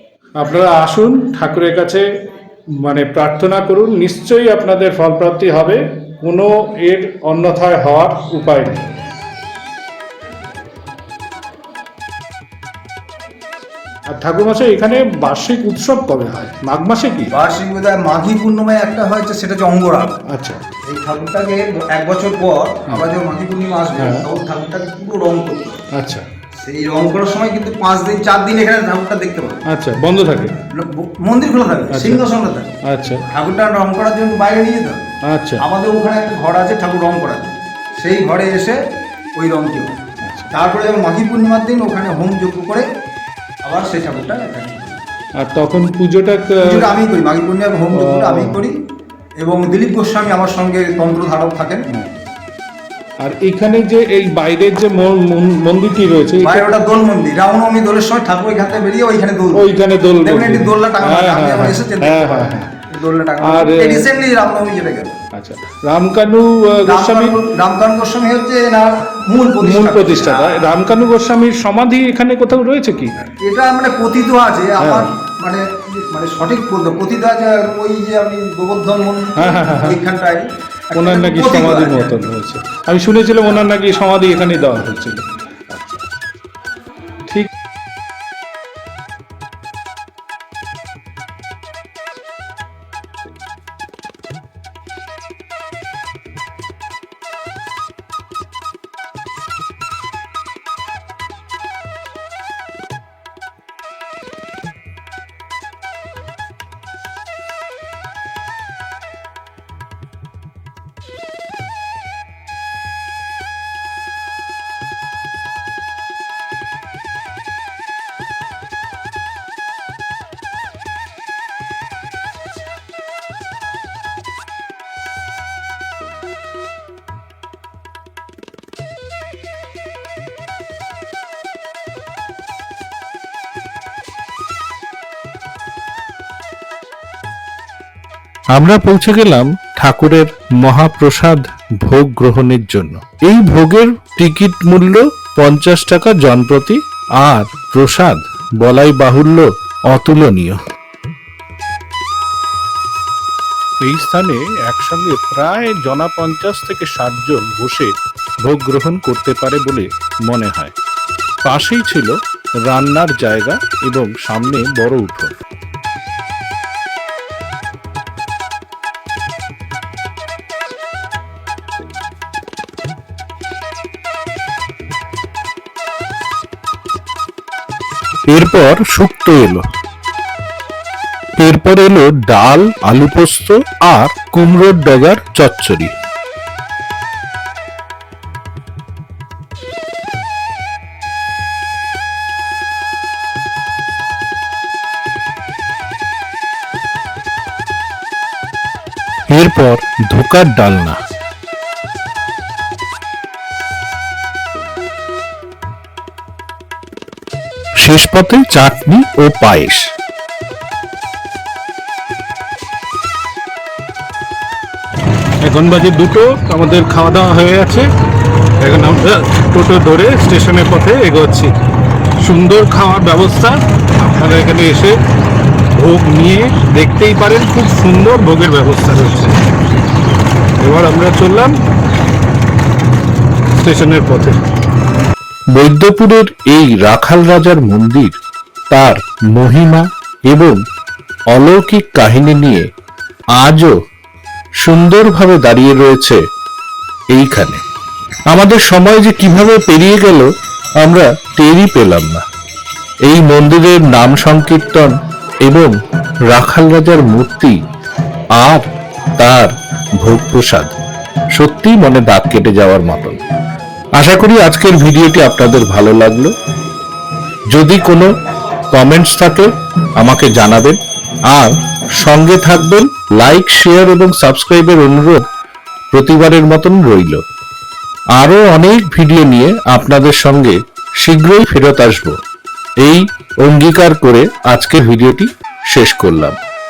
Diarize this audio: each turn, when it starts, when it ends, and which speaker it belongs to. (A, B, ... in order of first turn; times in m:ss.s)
0:00.4-0:02.0 A
0:02.8-0:08.8 A
0:14.1-0:17.3 A
0:17.3-0:20.2 B
0:20.3-0:20.6 A
0:20.9-0:25.8 B
0:24.0-0:24.3 A
0:26.0-0:26.3 A
0:26.6-0:29.6 B
0:29.7-0:30.6 A
0:30.7-0:32.8 B
0:31.9-0:32.2 A
0:32.8-0:33.2 A
0:33.3-0:35.0 B
0:35.2-0:35.6 A
0:35.6-0:38.8 B
0:39.4-0:42.8 B
0:43.6-0:45.0 B
0:45.4-0:46.9 A
0:46.6-0:48.8 B
0:47.9-0:48.6 A
0:49.4-0:51.9 B
0:53.2-0:56.7 A
0:56.4-0:59.7 B
0:59.5-1:02.7 A
1:00.2-1:05.2 B
1:03.4-1:04.1 A
1:05.4-1:07.4 A
1:06.8-1:10.7 B
1:09.6-1:13.3 A
1:13.4-1:22.1 B
1:14.8-1:15.1 A
1:19.4-1:20.0 A
1:20.9-1:26.1 A
2:18.5-2:30.6 C
2:33.8-2:37.9 C
2:38.4-2:40.7 C
2:41.4-2:42.2 C
2:42.7-2:45.4 C
2:58.3-2:59.6 C
3:01.4-3:05.9 C
3:19.3-3:21.0 C
3:27.8-3:29.9 C
3:35.4-3:37.9 A
3:38.6-3:41.5 A
3:42.2-3:45.0 A
3:45.7-3:49.5 A
3:50.6-3:51.6 A
3:53.6-3:54.4 A
3:55.5-3:58.2 C
3:58.7-4:00.6 C
4:01.3-4:02.7 C
4:03.4-4:03.8 C
4:04.6-4:06.2 C
4:07.1-4:07.6 C
4:08.3-4:10.3 C
4:10.8-4:12.2 C
4:13.0-4:15.7 C
4:16.3-4:17.6 C
4:18.4-4:18.7 C
4:19.2-4:20.7 C
4:21.4-4:23.2 C
4:24.0-4:26.3 C
4:27.5-4:28.1 C
4:28.7-4:35.2 C
4:35.9-4:37.2 C
4:38.2-4:42.2 C
4:42.8-4:46.4 C